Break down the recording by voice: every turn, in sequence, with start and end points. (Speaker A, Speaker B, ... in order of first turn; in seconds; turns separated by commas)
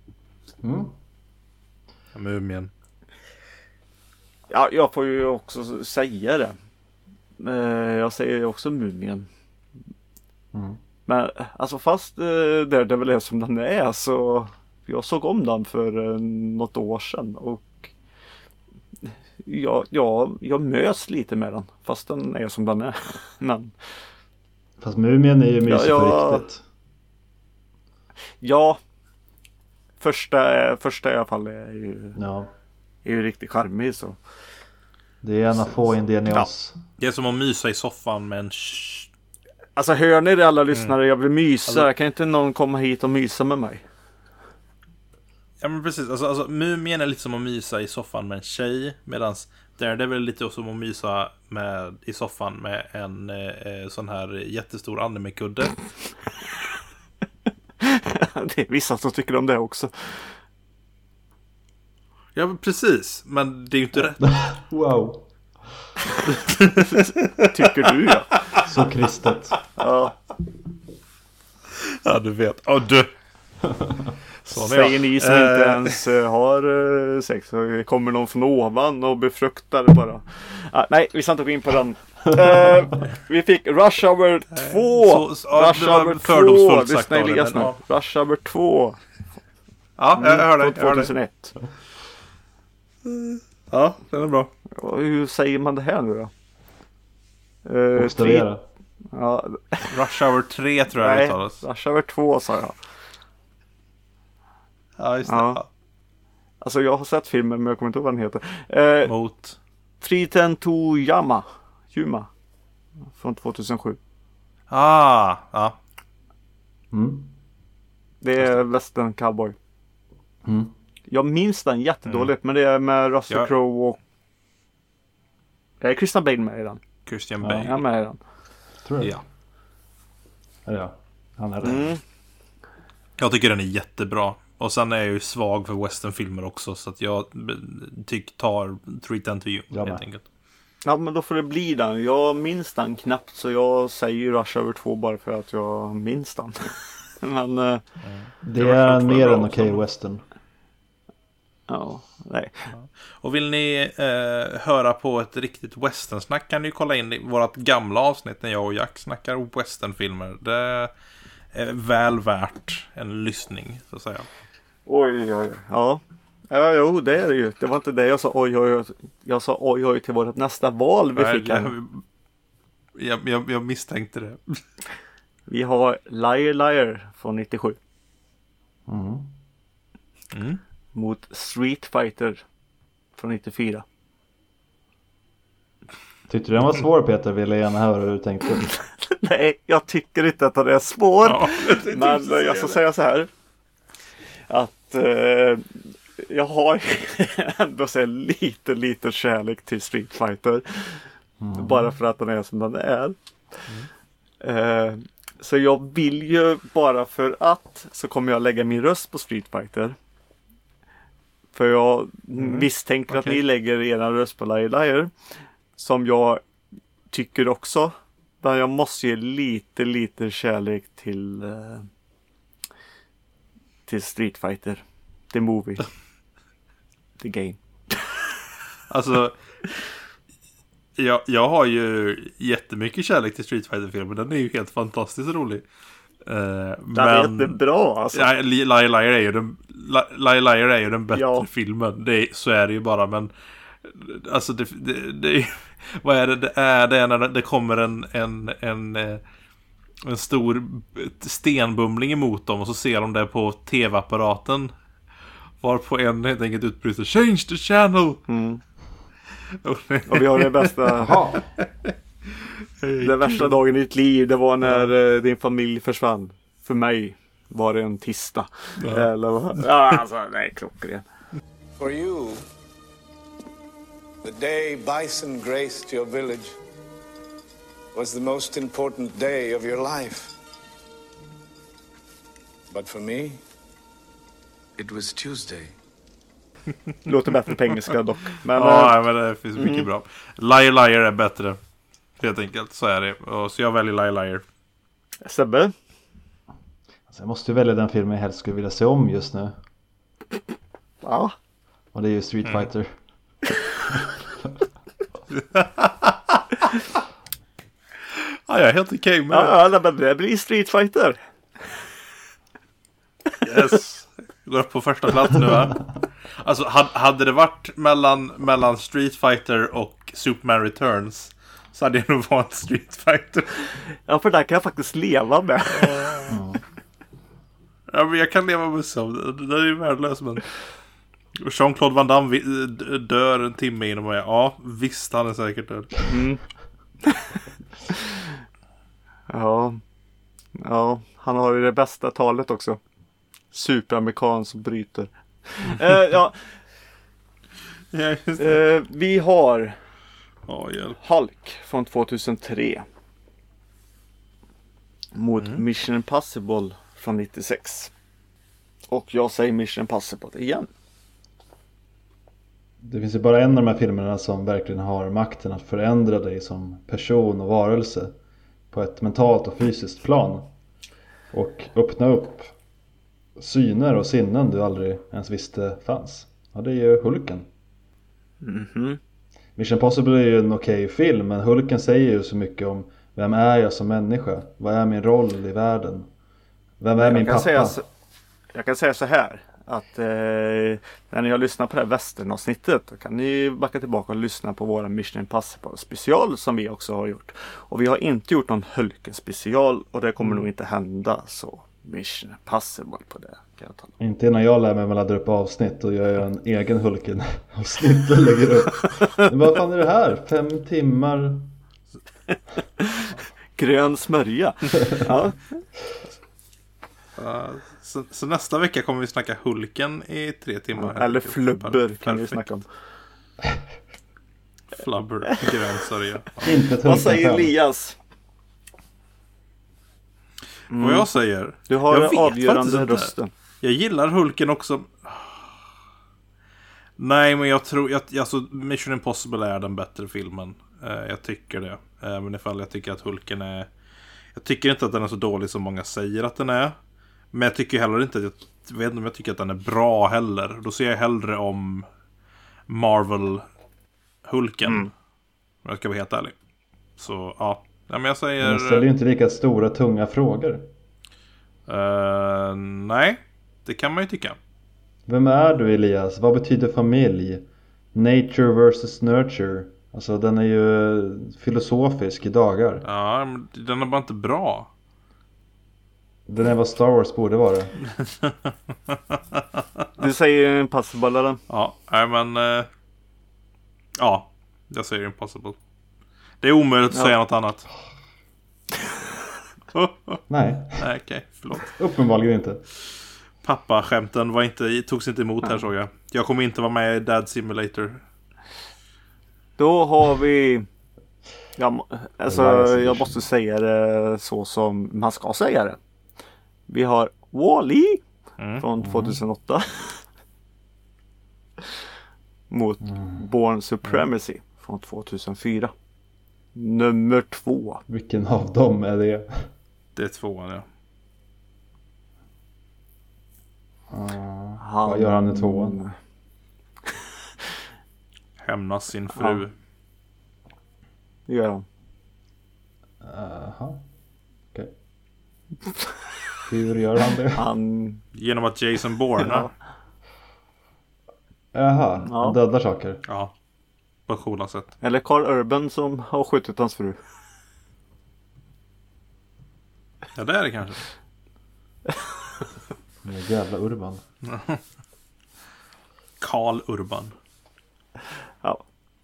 Speaker A: 0.6-0.9, Speaker B: 2.1-2.7, Speaker C: 4.5-6.6, Speaker C: 7.4-9.3, Speaker A: 10.5-10.8, Speaker C: 11.1-17.9, Speaker C: 19.1-23.7, Speaker A: 24.8-26.6, Speaker C: 25.6-26.4, Speaker C: 28.4-28.8, Speaker C: 30.0-32.2, Speaker A: 32.2-32.5, Speaker C: 33.0-34.2, Speaker A: 35.2-36.8, Speaker B: 37.0-39.1, Speaker C: 39.8-43.8, Speaker B: 45.6-55.9, Speaker C: 57.8-60.3, Speaker B: 62.4-64.3, Speaker A: 64.2-65.2, Speaker B: 66.3-67.9, Speaker C: 66.9-68.4, Speaker A: 68.6-69.6, Speaker C: 69.8-70.1, Speaker B: 71.7-73.1, Speaker B: 74.4-76.0, Speaker C: 74.5-89.0, Speaker B: 84.5-87.8, Speaker B: 90.0-91.1, Speaker C: 90.2-91.6, Speaker B: 93.0-94.5, Speaker C: 94.7-96.3, Speaker C: 97.7-98.5, Speaker A: 98.0-98.6, Speaker C: 99.1-100.0, Speaker B: 99.9-101.6, Speaker C: 101.0-102.8, Speaker B: 105.0-105.7, Speaker C: 105.3-105.6, Speaker C: 106.6-109.1, Speaker B: 109.0-109.6, Speaker C: 110.0-112.3, Speaker C: 113.2-114.0, Speaker B: 114.7-115.8, Speaker A: 116.9-117.3, Speaker C: 118.2-119.6, Speaker A: 120.5-120.7, Speaker C: 121.1-124.0, Speaker B: 122.1-122.3, Speaker C: 125.8-126.8, Speaker B: 127.1-127.8, Speaker A: 127.4-127.7, Speaker C: 127.6-128.2, Speaker A: 128.8-129.1, Speaker A: 130.7-131.9, Speaker C: 131.6-132.0, Speaker B: 133.2-140.2, Speaker A: 139.7-140.0, Speaker C: 140.8-147.8, Speaker B: 148.0-149.8, Speaker A: 148.4-150.2, Speaker C: 151.7-152.7, Speaker B: 152.7-160.9, Speaker B: 161.5-164.3, Speaker C: 164.9-171.7, Speaker B: 171.2-172.0, Speaker B: 173.0-174.6, Speaker C: 175.5-177.8, Speaker A: 178.9-179.3, Speaker B: 180.3-180.6, Speaker C: 180.9-182.4, Speaker C: 183.2-183.8, Speaker A: 186.3-188.8, Speaker C: 188.7-193.3, Speaker B: 191.2-192.8, Speaker C: 194.5-203.2, Speaker A: 201.4-201.9, Speaker C: 204.4-210.0, Speaker C: 211.5-215.1, Speaker B: 212.4-213.4, Speaker C: 215.8-216.4, Speaker C: 217.1-221.9, Speaker C: 223.9-225.9, Speaker C: 227.2-228.2, Speaker B: 228.9-229.4, Speaker B: 231.0-235.6, Speaker B: 236.2-237.6, Speaker C: 236.9-238.3, Speaker B: 238.1-243.3, Speaker C: 241.1-241.5, Speaker B: 243.8-249.2, Speaker B: 250.0-254.7, Speaker B: 255.6-258.2, Speaker C: 258.3-258.6, Speaker B: 259.5-263.5, Speaker C: 260.1-261.2, Speaker A: 261.0-261.4, Speaker C: 263.0-271.1, Speaker B: 268.8-269.1, Speaker D: 271.8-272.4, Speaker D: 274.2-276.6, Speaker D: 277.9-280.3, Speaker D: 282.7-283.4, Speaker D: 284.8-285.8, Speaker C: 287.1-289.0, Speaker B: 288.5-291.6, Speaker C: 289.6-289.9, Speaker B: 292.2-294.4, Speaker C: 295.2-295.8, Speaker A: 297.1-299.5, Speaker C: 301.0-301.4, Speaker A: 301.9-302.9, Speaker B: 305.4-306.8, Speaker B: 308.1-309.6, Speaker C: 309.3-311.2, Speaker B: 313.4-323.7, Speaker C: 323.9-326.3, Speaker B: 325.8-326.3, Speaker A: 326.3-326.6, Speaker B: 327.9-330.5, Speaker B: 331.4-336.0, Speaker C: 336.1-336.4, Speaker C: 337.0-338.4, Speaker C: 339.3-339.8, Speaker C: 340.6-342.8, Speaker C: 343.5-346.4, Speaker B: 347.9-348.6, Speaker C: 348.4-349.8, Speaker B: 350.5-351.0, Speaker C: 351.0-352.9, Speaker C: 355.1-357.9, Speaker C: 358.9-360.7, Speaker A: 362.8-368.1, Speaker A: 368.7-370.5, Speaker A: 371.3-372.5, Speaker A: 373.4-377.5, Speaker C: 378.4-379.0, Speaker A: 379.6-386.1, Speaker A: 386.8-387.8, Speaker C: 387.0-387.9, Speaker C: 388.5-403.9, Speaker A: 404.0-411.5, Speaker C: 412.8-415.6, Speaker B: 417.2-422.4, Speaker C: 420.8-422.6, Speaker B: 424.7-426.5, Speaker A: 426.4-427.5, Speaker C: 426.8-428.0, Speaker C: 430.7-431.1, Speaker B: 430.8-433.1, Speaker C: 431.7-433.3, Speaker B: 433.6-435.6, Speaker B: 437.0-443.7, Speaker B: 444.4-446.8, Speaker B: 447.3-451.9, Speaker B: 452.7-453.5, Speaker B: 454.3-454.9, Speaker B: 455.6-456.4, Speaker B: 457.0-458.9, Speaker A: 458.4-460.7, Speaker B: 461.7-464.4, Speaker A: 465.1-472.9, Speaker B: 472.8-474.7, Speaker A: 476.3-477.8, Speaker B: 477.9-479.6, Speaker C: 480.0-481.4, Speaker B: 481.5-482.7, Speaker B: 484.0-485.6, Speaker B: 486.4-487.7, Speaker B: 489.7-490.2, Speaker A: 490.3-490.8, Speaker B: 490.8-491.8, Speaker A: 491.8-492.6, Speaker B: 493.4-498.0, Speaker C: 499.6-500.7, Speaker C: 501.6-505.8, Speaker A: 502.3-503.2, Speaker C: 506.7-508.0, Speaker B: 508.4-508.6, Speaker C: 508.6-510.0, Speaker A: 508.8-509.2, Speaker C: 512.5-515.7, Speaker C: 516.5-517.8, Speaker A: 517.9-519.4, Speaker B: 520.0-520.7, Speaker A: 523.9-525.8, Speaker C: 524.6-526.0, Speaker B: 528.4-529.5, Speaker C: 529.2-529.4, Speaker C: 531.3-531.6, Speaker A: 533.0-533.8, Speaker A: 536.5-537.4, Speaker C: 537.3-538.0, Speaker B: 538.1-539.5, Speaker C: 539.2-539.5, Speaker A: 541.5-543.0, Speaker C: 542.1-542.4, Speaker B: 543.1-543.3, Speaker B: 544.1-544.7, Speaker C: 544.8-547.0, Speaker B: 550.1-550.9, Speaker A: 553.0-554.0, Speaker B: 554.2-554.6, Speaker B: 556.2-557.1